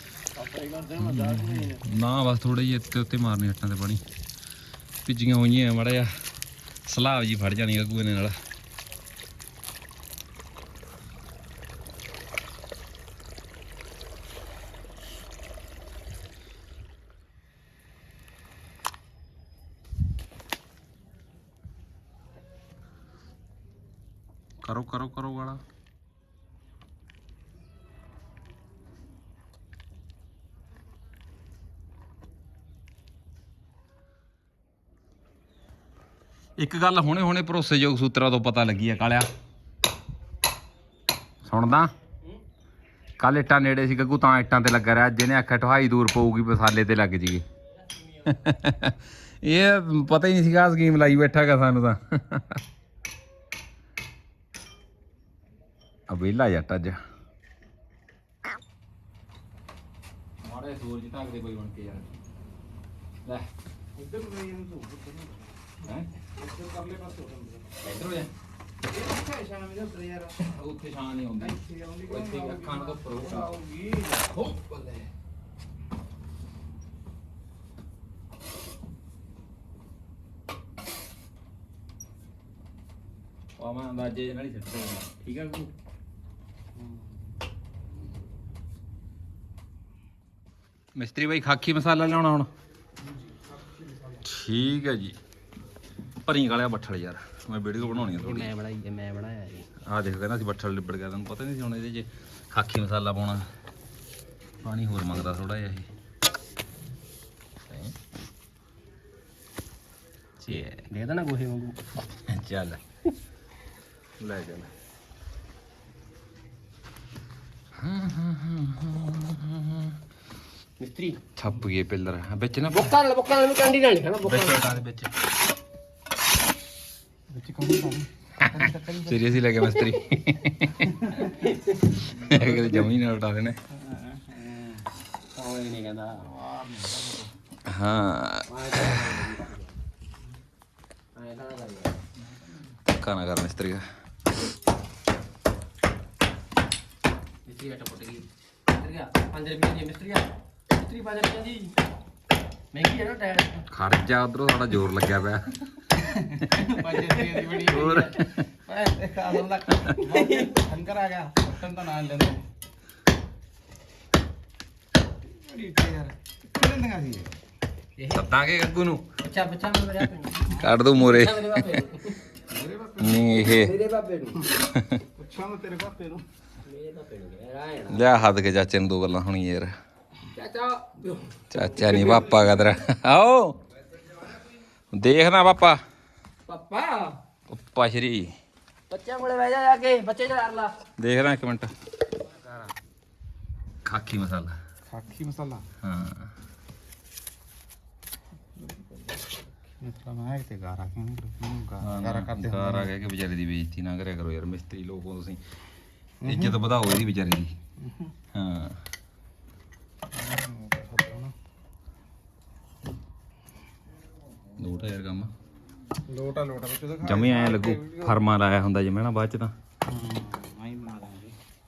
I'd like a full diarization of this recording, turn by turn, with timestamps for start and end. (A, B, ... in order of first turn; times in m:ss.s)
0:00.4-0:01.8 A
0:01.0-0:04.0 B
0:05.0-0:06.1 B
0:06.9-0:08.3 B
0:24.6-0:25.6 B
0:36.6-0:39.3 B
0:41.4-0:41.9 B
0:43.2-0:47.4 B
0:47.9-0:48.4 C
0:48.3-0:52.6 B
0:56.1-0:57.0 B
1:00.4-1:02.0 B
1:03.9-1:05.5 A
1:05.8-1:06.1 B
1:06.3-1:07.7 A
1:07.8-1:08.3 B
1:08.9-1:10.4 A
1:10.4-1:13.5 B
1:11.4-1:15.1 A
1:23.6-1:25.7 B
1:30.9-1:32.5 B
1:33.2-1:34.2 A
1:34.2-1:35.2 B
1:36.2-1:38.5 B
1:37.8-1:39.7 C
1:39.9-1:43.4 B
1:44.6-1:45.9 B
1:47.7-1:47.9 B
1:50.4-1:50.8 B
1:50.5-1:51.9 C
1:52.3-1:52.8 B
1:54.2-1:54.7 A
1:54.2-1:54.6 B
1:57.8-2:00.0 B
2:00.8-2:01.2 C
2:01.4-2:02.9 B
2:02.7-2:04.7 C
2:04.2-2:05.1 B
2:07.3-2:09.3 A
2:08.4-2:11.1 B
2:09.8-2:10.2 C
2:11.2-2:12.5 C
2:12.2-2:13.6 B
2:12.2-2:12.7 A
2:13.8-2:14.8 A
2:15.3-2:16.3 C
2:16.2-2:17.3 A
2:17.7-2:18.9 B
2:18.5-2:19.8 C
2:21.1-2:22.0 C
2:22.9-2:23.8 B
2:27.4-2:31.7 C
2:32.7-2:33.6 C
2:33.7-2:35.4 B
2:36.3-2:37.8 A
2:36.7-2:38.3 C
2:37.7-2:38.3 B
2:38.6-2:42.4 A
2:45.4-2:47.3 A
2:48.0-2:48.3 C
2:48.1-2:49.0 B
2:49.2-2:52.2 C
2:50.6-2:51.8 B
2:52.5-2:54.4 A
2:53.0-2:53.8 B
2:53.4-2:54.4 C
2:54.7-2:55.0 B
2:55.2-2:56.2 A
2:56.6-2:58.1 C
2:57.9-2:59.7 B
3:00.3-3:02.3 C
3:01.5-3:03.6 B
3:04.9-3:05.8 B
3:06.5-3:07.2 C
3:07.5-3:08.3 B
3:08.9-3:10.8 C
3:11.0-3:11.7 B
3:13.8-3:14.6 B
3:14.9-3:15.6 A
3:15.8-3:16.3 B
3:18.6-3:22.9 A
3:21.8-3:25.4 B
3:26.2-3:26.6 A
3:26.2-3:27.5 B
3:28.3-3:28.8 B
3:30.1-3:31.3 A
3:34.6-3:35.3 B
3:36.1-3:38.2 A
3:37.0-3:39.5 B
3:39.8-3:41.3 A